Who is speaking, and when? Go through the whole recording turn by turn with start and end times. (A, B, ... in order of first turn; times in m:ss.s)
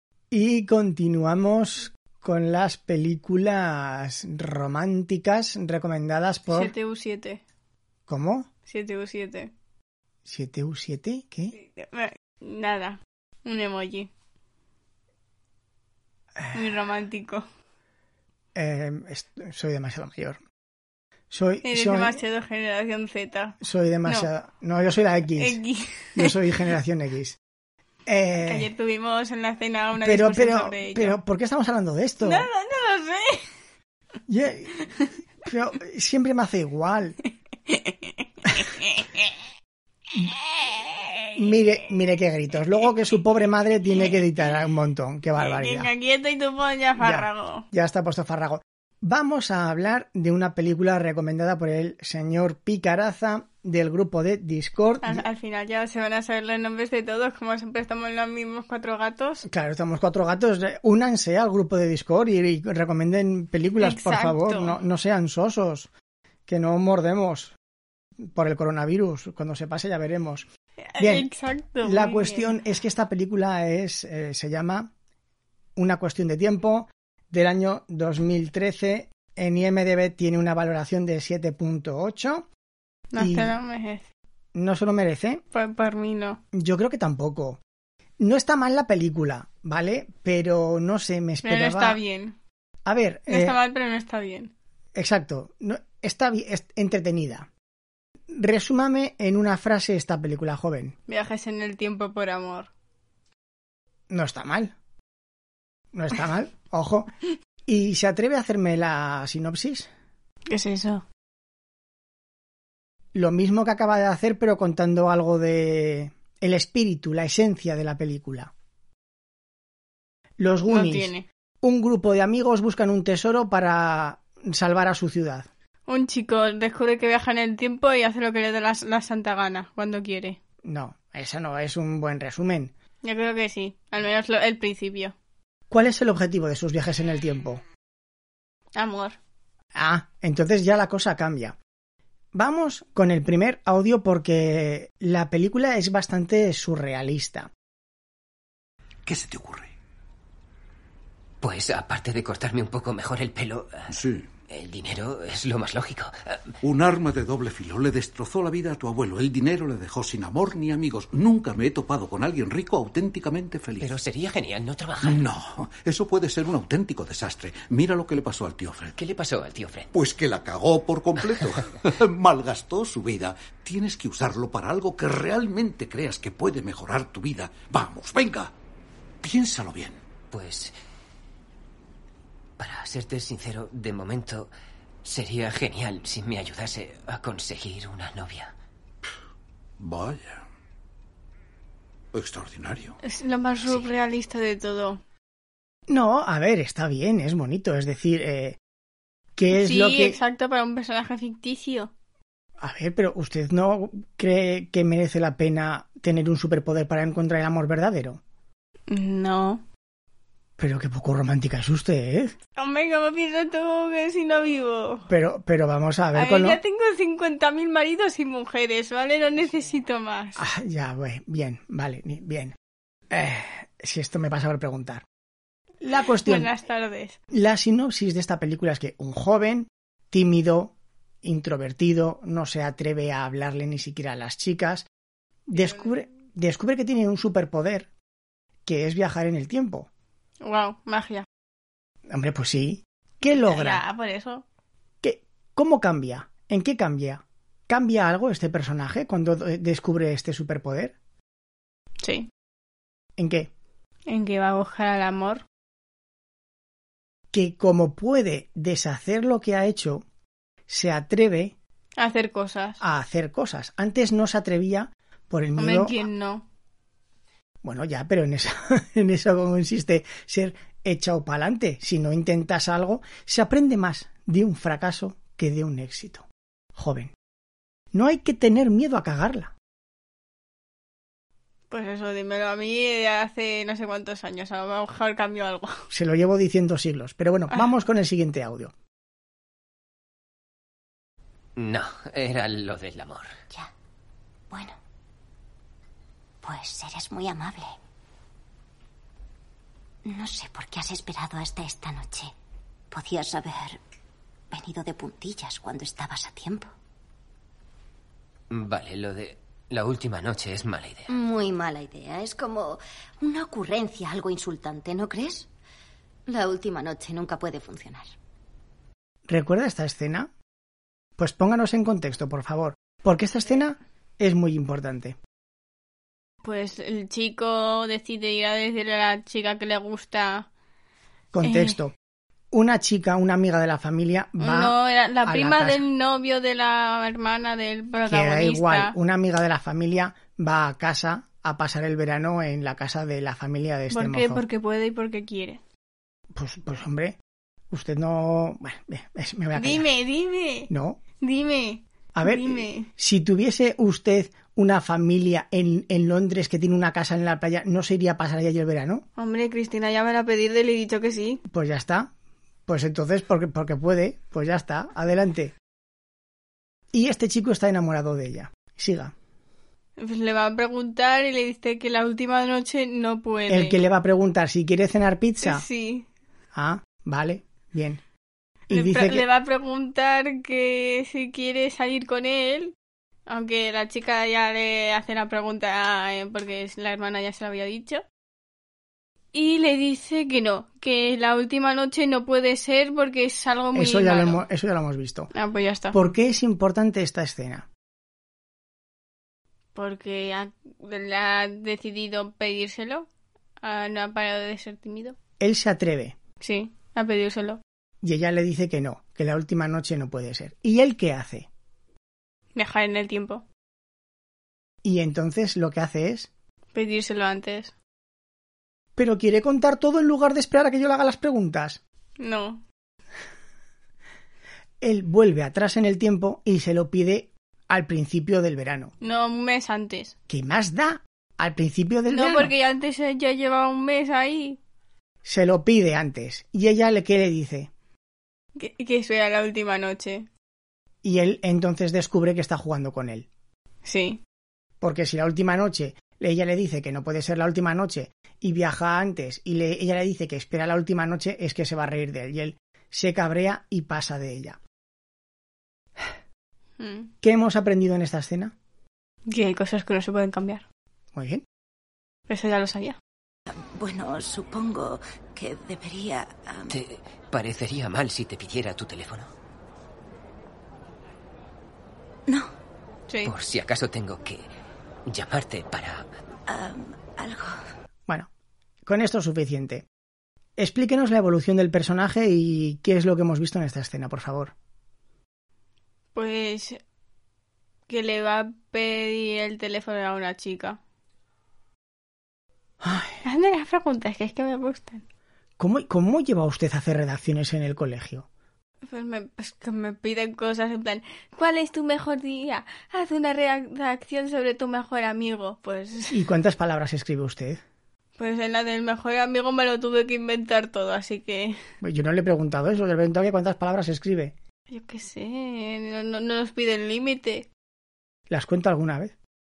0:00.3-0:06.7 A
0:06.5-0:07.4 B
0:08.1-0:08.5 A
0:08.7-0:09.5 B
0:10.2-0:11.6 A
0:11.5-0:14.1 B
0:16.5-0:17.4 B
0:18.5-0:20.4 A
0:21.3-0:22.2 A
0:21.6-0:24.3 B
0:23.6-0:25.6 A
0:25.4-0:26.3 B
0:26.1-0:27.4 A
0:28.1-0:28.7 A
0:28.4-0:31.2 B
0:30.0-0:32.5 A
0:32.2-0:33.5 B
0:34.3-0:34.9 A
0:35.4-0:37.2 A
0:37.7-0:39.3 B
0:40.6-0:41.4 B
0:41.3-0:45.9 A
0:45.4-0:47.7 B
0:47.0-0:55.2 A
0:55.0-0:59.4 B
0:59.4-1:05.9 A
1:03.8-1:04.8 B
1:06.5-1:07.5 A
1:08.2-1:10.4 A
1:10.9-1:12.5 B
1:11.0-1:11.3 A
1:11.8-1:14.9 A
1:15.8-1:22.4 A
1:23.1-1:24.0 B
1:23.2-1:23.5 A
1:24.5-1:25.4 A
1:25.5-1:26.4 B
1:26.5-1:27.6 A
1:28.2-1:32.0 A
1:31.4-1:32.4 B
1:32.8-1:33.6 A
1:33.3-1:34.5 B
1:34.9-1:37.5 A
1:38.3-1:40.9 A
1:41.1-1:42.7 B
1:44.1-1:44.7 A
1:45.9-1:47.1 A
1:47.7-1:49.9 A
1:50.5-1:51.0 B
1:53.1-1:58.5 A
2:00.4-2:01.1 A
2:00.7-2:01.2 B
2:01.6-2:05.5 A
2:05.9-2:10.4 B
2:10.6-2:12.7 A
2:13.0-2:15.1 B
2:15.7-2:17.6 A
2:18.8-2:19.2 B
2:19.7-2:21.6 A
2:22.3-2:27.5 A
2:29.0-2:29.7 C
2:31.4-2:33.9 D
2:33.9-2:34.3 C
2:34.5-2:36.6 D
2:36.6-2:43.9 C
2:43.8-2:45.2 D
2:45.0-2:49.0 C
2:49.0-2:49.9 D
2:49.9-2:58.5 C
2:59.2-3:00.0 C
3:00.3-3:00.7 D
3:02.6-3:04.5 D
3:05.0-3:08.5 D
3:09.8-3:10.4 C
3:12.1-3:13.0 C
3:13.0-3:15.0 B
3:15.9-3:18.6 A
3:19.4-3:20.2 A
3:19.5-3:21.9 B
3:22.6-3:28.2 A
3:28.9-3:29.6 B
3:30.6-3:32.3 A
3:32.6-3:35.1 B
3:35.1-3:36.6 A
3:36.1-3:40.4 B
3:40.4-3:42.5 A
3:43.1-3:45.0 A
3:45.8-3:46.5 A
3:46.2-3:47.2 B
3:47.3-3:50.7 A
3:51.2-3:54.9 A
3:55.5-3:57.9 A
3:55.6-3:55.9 B
3:58.6-3:59.9 A
4:00.4-4:01.2 B
4:02.1-4:03.8 A
4:03.2-4:04.4 B
4:05.0-4:10.9 A
4:12.0-4:12.3 B
4:13.2-4:13.5 A
4:14.1-4:15.4 B
4:17.3-4:20.0 A
4:20.7-4:21.5 A
4:22.0-4:22.8 B
4:22.8-4:25.9 A
4:25.6-4:26.4 B
4:27.6-4:37.1 A
4:37.9-4:39.5 A
4:41.7-4:45.9 B
4:45.9-4:48.7 A
4:51.6-4:53.4 D
4:54.5-4:54.8 E
4:56.4-4:57.8 E
5:00.0-5:02.3 E
5:02.9-5:03.8 E
5:04.5-5:06.7 E
5:08.5-5:11.1 D
5:11.1-5:15.5 E
5:16.3-5:18.1 E
5:19.3-5:20.3 A
5:21.2-5:25.2 A
5:26.4-5:30.5 B
5:31.3-5:31.9 A
5:31.4-5:31.8 B
5:32.5-5:35.8 A
5:34.4-5:38.9 B
5:38.1-5:44.4 A
5:43.9-5:45.6 B
5:46.3-5:47.2 A
5:47.7-5:49.8 A
5:49.6-5:52.9 B
5:50.7-5:51.0 A
5:52.1-5:59.0 A
5:59.2-6:01.4 B
6:01.5-6:02.1 A
6:02.7-6:05.5 A
6:06.9-6:09.1 A
6:10.0-6:13.8 B
6:13.5-6:15.6 A
6:15.4-6:16.0 B
6:16.5-6:18.0 A
6:18.7-6:19.2 A
6:18.7-6:22.7 B
6:23.3-6:28.0 B
6:29.3-6:34.4 B
6:33.7-6:35.3 A
6:35.3-6:36.0 B
6:35.9-6:37.6 A
6:39.7-6:43.1 B
6:43.6-6:45.2 B
6:45.4-6:46.2 A
6:46.4-6:47.6 B
6:48.0-6:51.5 A
6:52.5-6:53.4 B
6:54.8-6:56.3 A
6:56.7-6:57.7 B
6:59.0-7:01.8 A
7:02.2-7:02.6 B
7:04.8-7:08.9 A
7:09.0-7:10.1 B
7:10.3-7:12.5 A
7:12.1-7:14.6 B
7:15.2-7:17.7 A
7:18.6-7:20.3 B
7:21.0-7:23.2 A
7:23.8-7:24.2 B
7:24.8-7:34.6 A
7:36.8-7:37.1 B
7:37.2-7:38.5 A
7:39.2-7:40.6 B
7:41.1-7:41.4 A
7:42.3-7:43.0 B
7:43.5-7:46.8 E
7:46.7-7:49.3 D
7:53.1-7:53.3 B
7:53.2-7:54.4 D
7:55.1-7:56.1 D
7:56.5-7:57.6 E
7:58.8-7:59.8 A
8:00.6-8:04.5 A
8:06.1-8:06.8 B
8:07.9-8:10.8 B
8:12.8-8:13.2 A
8:13.2-8:15.0 B
8:15.6-8:18.2 A
8:18.9-8:26.2 B
8:26.1-8:27.6 A
8:28.2-8:31.6 B
8:31.8-8:34.3 A
8:34.7-8:37.5 B
8:38.3-8:39.1 A